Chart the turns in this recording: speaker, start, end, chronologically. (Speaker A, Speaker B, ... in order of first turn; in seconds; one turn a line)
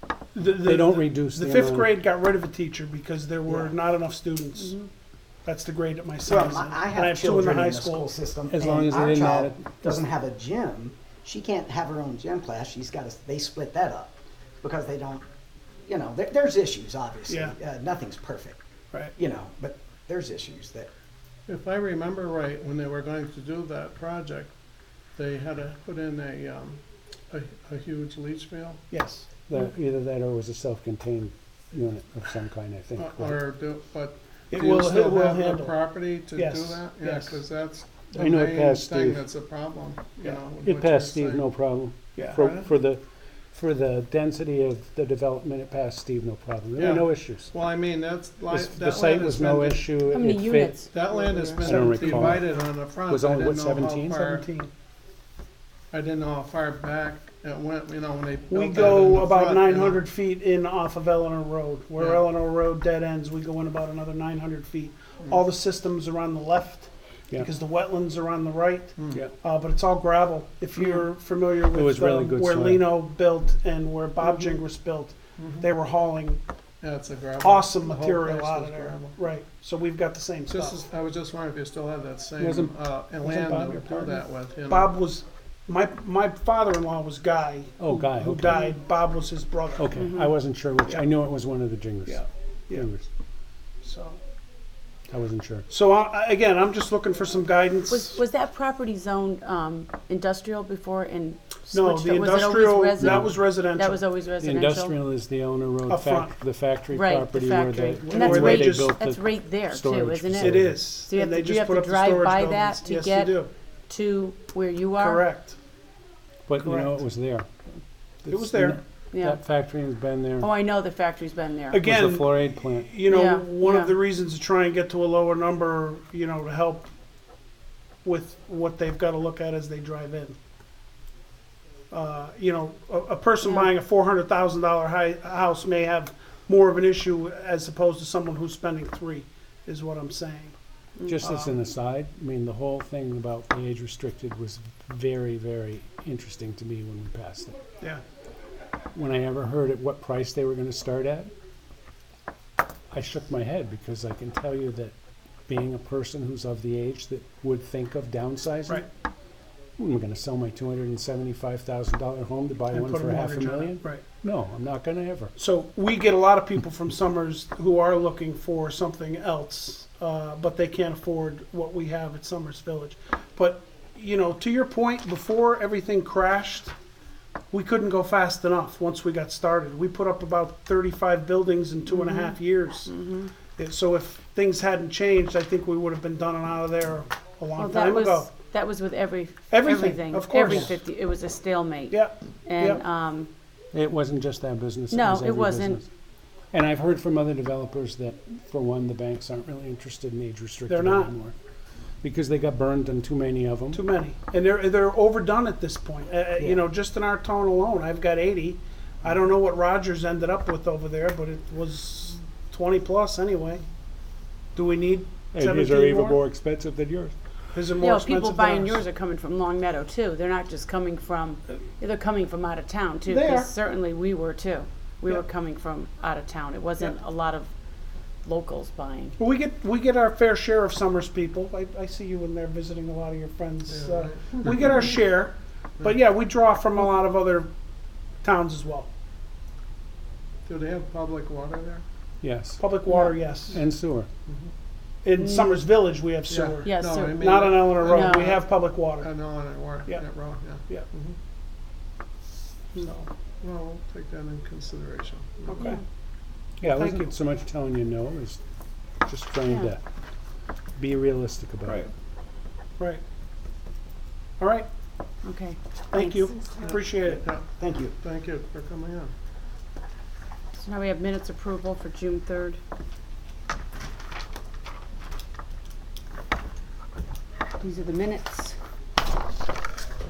Speaker A: 0.3-4.8
Speaker B: 0.4-2.0
Speaker C: 3.5-3.8
Speaker D: 4.6-4.9
Speaker A: 5.5-8.1
Speaker C: 6.3-15.2
Speaker B: 8.5-10.0
Speaker C: 15.8-18.6
Speaker A: 17.3-17.6
Speaker C: 19.2-20.9
Speaker E: 21.5-24.5
Speaker E: 25.2-28.8
Speaker A: 28.9-29.3
Speaker B: 29.5-33.4
Speaker E: 33.0-41.4
Speaker A: 34.5-35.8
Speaker A: 36.3-37.4
Speaker B: 38.1-39.2
Speaker B: 40.6-47.5
Speaker A: 42.2-42.4
Speaker E: 42.4-42.7
Speaker E: 46.8-50.1
Speaker B: 48.5-50.8
Speaker D: 50.1-51.7
Speaker E: 50.9-54.5
Speaker B: 51.6-52.5
Speaker A: 51.6-52.4
Speaker B: 53.1-54.2
Speaker A: 54.2-54.7
Speaker E: 55.9-60.0
Speaker A: 58.5-76.4
Speaker E: 62.0-62.3
Speaker B: 71.7-73.0
Speaker E: 75.4-75.7
Speaker E: 76.8-79.2
Speaker A: 77.4-80.9
Speaker E: 80.5-84.9
Speaker B: 82.4-82.8
Speaker A: 83.2-90.1
Speaker B: 87.8-88.7
Speaker B: 89.8-93.1
Speaker D: 90.0-90.3
Speaker A: 92.1-92.9
Speaker A: 93.8-94.2
Speaker B: 95.1-95.7
Speaker A: 95.7-98.2
Speaker D: 97.9-105.0
Speaker A: 101.7-104.0
Speaker B: 103.0-103.3
Speaker B: 104.4-110.8
Speaker A: 105.9-106.3
Speaker D: 106.9-115.2
Speaker A: 108.1-109.0
Speaker A: 110.4-113.5
Speaker A: 115.0-115.6
Speaker B: 116.5-117.5
Speaker A: 116.6-117.0
Speaker B: 118.2-120.5
Speaker A: 118.3-118.8
Speaker D: 119.1-119.4
Speaker D: 120.4-121.8
Speaker A: 121.7-126.9
Speaker B: 121.8-122.9
Speaker D: 123.1-124.0
Speaker A: 128.0-130.4
Speaker A: 131.9-140.6
Speaker D: 141.0-141.2
Speaker B: 141.1-147.6
Speaker A: 141.2-141.5
Speaker B: 148.9-151.3
Speaker B: 152.9-154.9
Speaker B: 155.5-158.9
Speaker B: 159.8-165.3
Speaker A: 162.7-164.0
Speaker A: 165.4-176.8
Speaker A: 177.5-182.9
Speaker D: 181.9-182.3
Speaker D: 182.9-183.3
Speaker A: 183.6-188.3
Speaker D: 187.6-193.3
Speaker A: 189.5-190.7
Speaker A: 191.9-192.8
Speaker B: 193.7-195.9
Speaker D: 194.9-195.8
Speaker B: 196.5-201.4
Speaker A: 200.7-201.1
Speaker B: 202.0-203.8
Speaker A: 203.7-213.6
Speaker A: 214.6-216.2
Speaker B: 215.3-217.2
Speaker A: 217.5-218.8
Speaker D: 217.8-227.5
Speaker A: 223.1-223.5
Speaker D: 228.2-229.2
Speaker A: 229.2-237.5
Speaker E: 233.7-234.8
Speaker A: 238.2-238.9
Speaker E: 240.5-241.8
Speaker B: 242.2-242.6
Speaker A: 242.6-243.6
Speaker D: 242.9-243.1
Speaker B: 243.5-244.1
Speaker A: 245.0-249.1
Speaker D: 245.2-245.7
Speaker E: 246.3-248.4
Speaker D: 246.7-248.4
Speaker E: 249.0-251.2
Speaker E: 252.8-255.7
Speaker A: 255.5-255.8
Speaker D: 255.6-255.8
Speaker B: 256.6-258.4
Speaker B: 259.1-259.8
Speaker D: 259.5-259.7
Speaker B: 260.8-261.9
Speaker A: 264.4-264.7
Speaker D: 265.2-266.4
Speaker A: 265.9-267.2
Speaker E: 266.6-269.1
Speaker C: 266.6-267.9
Speaker D: 270.6-272.6
Speaker D: 277.6-278.6